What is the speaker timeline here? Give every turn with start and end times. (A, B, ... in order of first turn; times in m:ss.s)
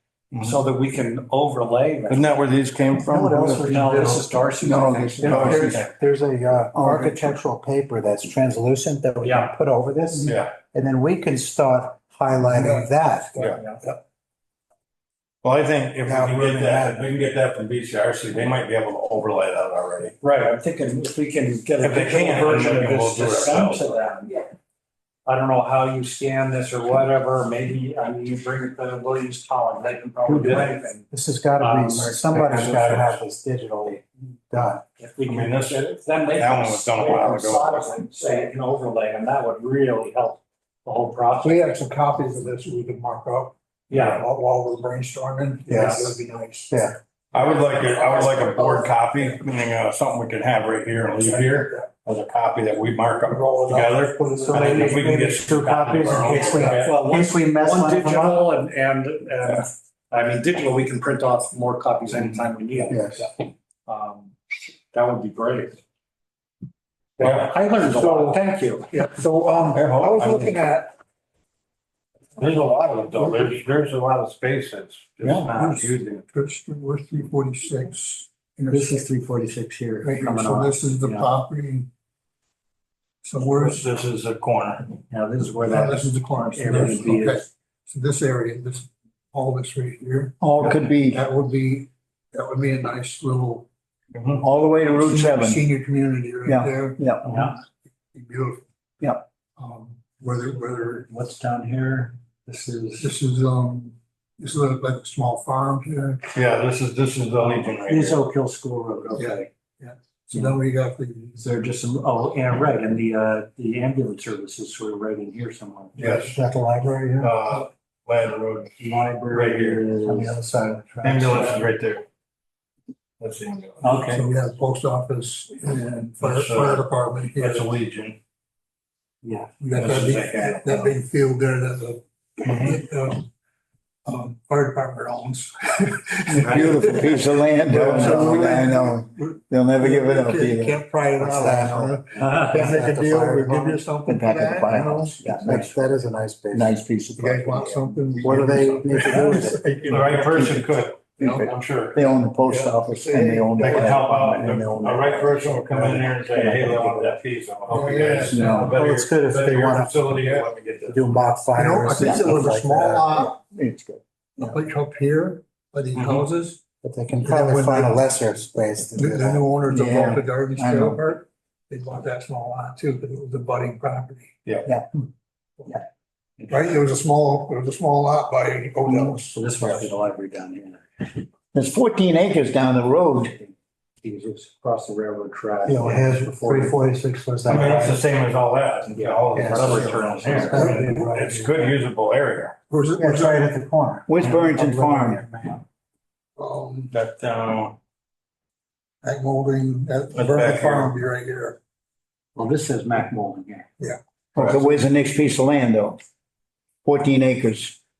0:00.3-0:00.6 A
0:00.4-0:02.3 B
0:02.1-0:03.8 A
0:03.0-0:04.2 C
0:03.2-0:05.8 B
0:04.6-0:05.7 D
0:05.0-0:13.6 C
0:05.2-0:05.9 A
0:05.5-0:05.8 E
0:06.7-0:07.2 D
0:09.2-0:09.5 B
0:10.2-0:10.5 A
0:12.5-0:14.0 E
0:15.4-0:20.2 A
0:16.2-0:17.0 C
0:20.2-0:24.5 B
0:21.8-0:23.9 A
0:25.2-0:31.1 B
0:30.3-0:34.8 C
0:30.3-0:30.7 A
0:31.6-0:33.2 B
0:35.0-0:41.6 B
0:35.2-0:37.8 A
0:41.4-0:49.4 E
0:43.9-0:44.2 B
0:47.3-0:57.0 A
0:51.2-0:51.8 E
0:53.1-0:55.1 E
0:54.4-0:58.5 C
0:56.2-1:04.4 B
1:02.9-1:03.3 C
1:04.9-1:05.8 B
1:07.2-1:07.5 A
1:07.2-1:08.9 B
1:08.9-1:10.9 E
1:09.7-1:10.6 A
1:12.4-1:16.2 A
1:13.1-1:13.5 E
1:15.2-1:15.5 B
1:15.5-1:19.0 E
1:18.7-1:21.3 B
1:20.0-1:21.9 E
1:23.2-1:23.9 E
1:23.5-1:25.0 A
1:25.1-1:27.4 B
1:25.6-1:33.7 E
1:30.4-1:31.2 D
1:34.1-1:34.4 A
1:34.4-1:35.6 D
1:34.8-1:37.6 E
1:36.4-1:37.5 D
1:37.3-1:37.5 B
1:38.1-1:38.6 E
1:39.6-1:41.1 E
1:41.1-1:43.1 B
1:43.0-1:46.3 E
1:46.3-1:48.2 A
1:47.4-1:49.5 B
1:49.2-1:51.5 E
1:50.3-1:50.6 B
1:51.4-1:56.0 B
1:56.0-1:56.4 A
1:56.0-1:57.4 C
1:57.2-1:58.7 A
1:58.8-2:00.3 B
1:59.3-2:00.2 A
1:59.4-2:01.6 C
2:01.0-2:02.0 A
2:03.2-2:04.1 A
2:03.8-2:04.2 B
2:04.0-2:07.7 E
2:06.2-2:08.2 A
2:09.6-2:13.3 E
2:09.7-2:10.7 A
2:12.4-2:12.8 A
2:14.0-2:25.4 E
2:16.3-2:17.1 A
2:16.4-2:21.9 D
2:17.7-2:18.4 A
2:21.2-2:23.8 C
2:22.2-2:22.7 B
2:24.0-2:25.8 D
2:25.2-2:26.8 C
2:26.5-2:27.8 D
2:27.2-2:30.6 E
2:28.2-2:29.6 C
2:29.8-2:32.7 A
2:31.2-2:36.1 D
2:31.2-2:31.4 E
2:32.8-2:34.0 E
2:33.6-2:41.1 A
2:36.4-2:36.7 B
2:36.7-2:37.1 D
2:37.7-2:38.5 E
2:38.2-2:38.8 D
2:38.3-2:43.2 C
2:41.5-2:43.3 E
2:42.0-2:42.5 D
2:43.0-2:44.6 D
2:44.4-2:46.6 E
2:45.9-2:46.2 A
2:46.8-2:49.5 C
2:47.2-2:48.0 E
2:49.0-2:54.3 E
2:49.7-2:51.0 D
2:56.5-2:59.4 E
2:59.1-3:01.2 B
3:01.5-3:03.4 D
3:04.0-3:06.8 B
3:05.6-3:08.0 C
3:07.4-3:12.6 A
3:08.9-3:10.8 B
3:09.4-3:11.7 C
3:10.5-3:11.1 E
3:12.7-3:13.5 E
3:12.9-3:15.6 C
3:14.1-3:15.2 D
3:16.4-3:16.9 E
3:16.9-3:17.8 A
3:19.0-3:21.6 E
3:20.1-3:21.0 A
3:22.3-3:23.7 B
3:24.3-3:26.0 D
3:24.4-3:24.8 A
3:26.8-3:27.8 D